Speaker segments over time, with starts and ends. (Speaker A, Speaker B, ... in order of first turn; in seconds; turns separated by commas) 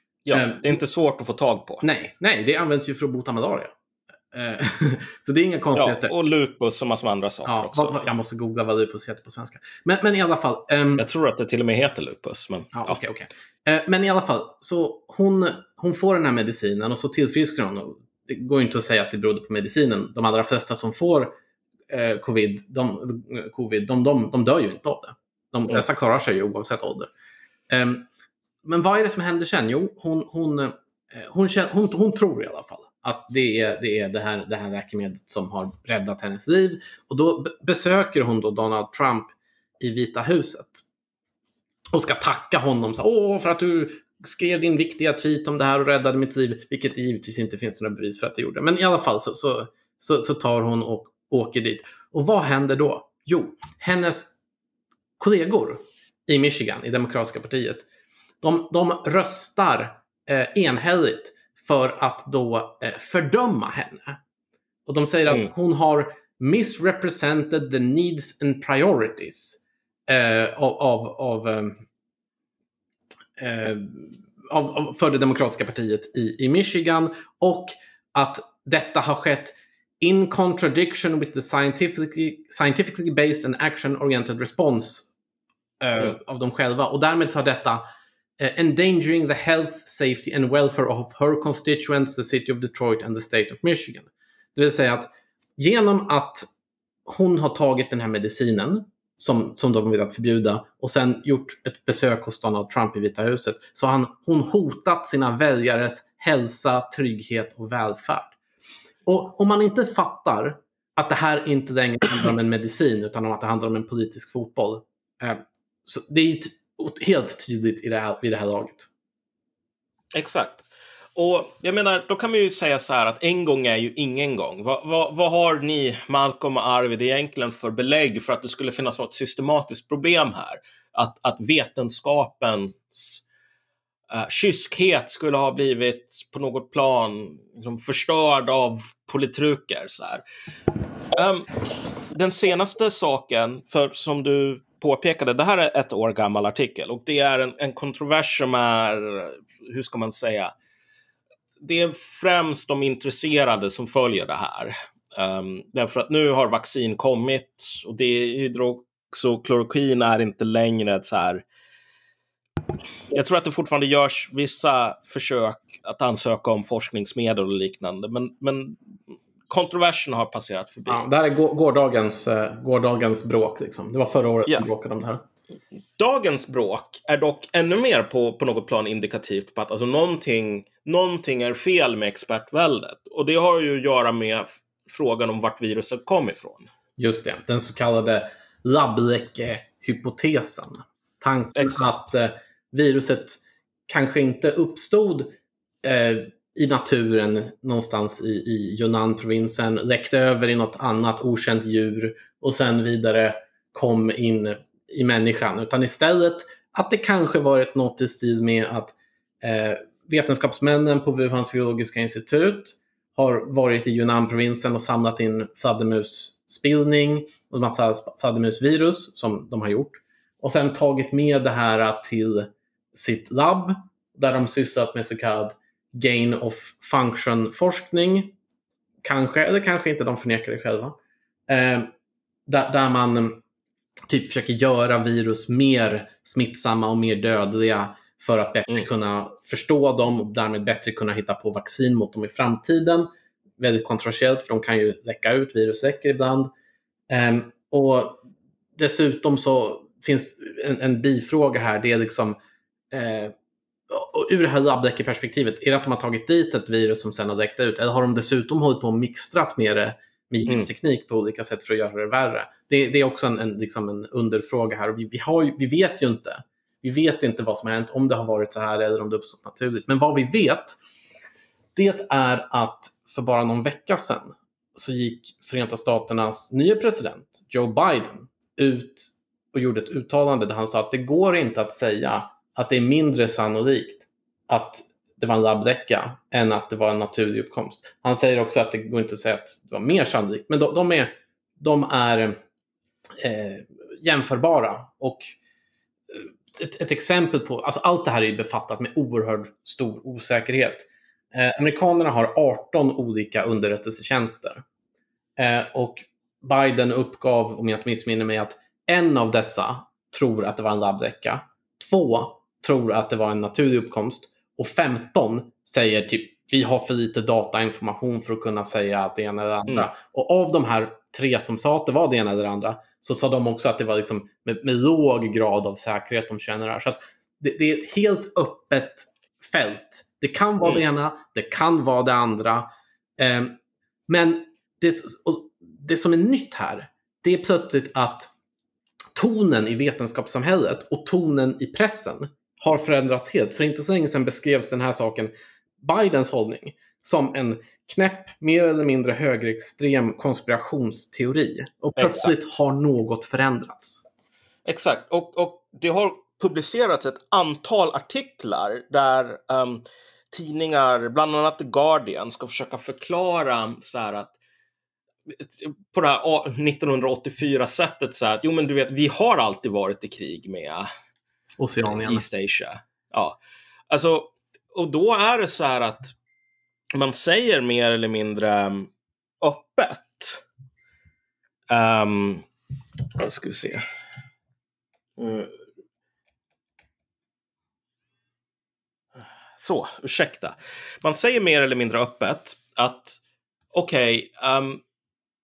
Speaker A: 0.2-1.8, Speaker B: 0.3-0.6, Speaker B: 1.8-3.7, Speaker B: 4.3-6.1, Speaker A: 5.7-8.0, Speaker B: 7.4-11.0, Speaker A: 11.0-13.0, Speaker B: 12.7-21.3, Speaker B: 21.9-27.1, Speaker B: 27.7-28.1, Speaker B: 28.6-40.8, Speaker B: 41.9-54.3, Speaker B: 55.2-57.9, Speaker B: 58.4-64.2, Speaker B: 64.8-71.8, Speaker B: 73.4-85.1, Speaker B: 85.8-87.8, Speaker B: 88.4-96.5, Speaker B: 97.0-108.4, Speaker B: 109.0-118.9, Speaker A: 120.1-133.2, Speaker A: 134.1-140.2, Speaker A: 141.1-141.5, Speaker A: 142.1-150.5, Speaker A: 151.6-161.4, Speaker A: 163.1-168.8, Speaker A: 169.5-171.0, Speaker B: 170.9-175.2, Speaker A: 176.0-186.7, Speaker B: 187.0-195.3, Speaker A: 191.6-191.8, Speaker B: 195.8-228.3, Speaker B: 229.0-230.9, Speaker B: 231.5-231.9, Speaker B: 232.5-233.4, Speaker B: 234.1-243.1, Speaker B: 243.6-246.5, Speaker B: 247.1-248.2, Speaker B: 248.8-252.4, Speaker B: 252.9-253.3, Speaker B: 253.9-270.8, Speaker B: 271.7-292.4, Speaker B: 293.2-295.3, Speaker B: 296.1-304.6, Speaker B: 305.4-332.7, Speaker B: 333.2-333.6, Speaker B: 334.1-338.3, Speaker B: 339.1-354.0, Speaker A: 352.0-352.3, Speaker A: 354.6-364.4, Speaker A: 365.3-370.9, Speaker B: 371.6-372.2, Speaker A: 371.9-373.4, Speaker A: 373.9-376.1, Speaker A: 376.9-380.4, Speaker A: 381.7-382.4, Speaker A: 383.2-383.8, Speaker A: 385.2-385.5, Speaker A: 389.6-393.2, Speaker A: 393.7-394.8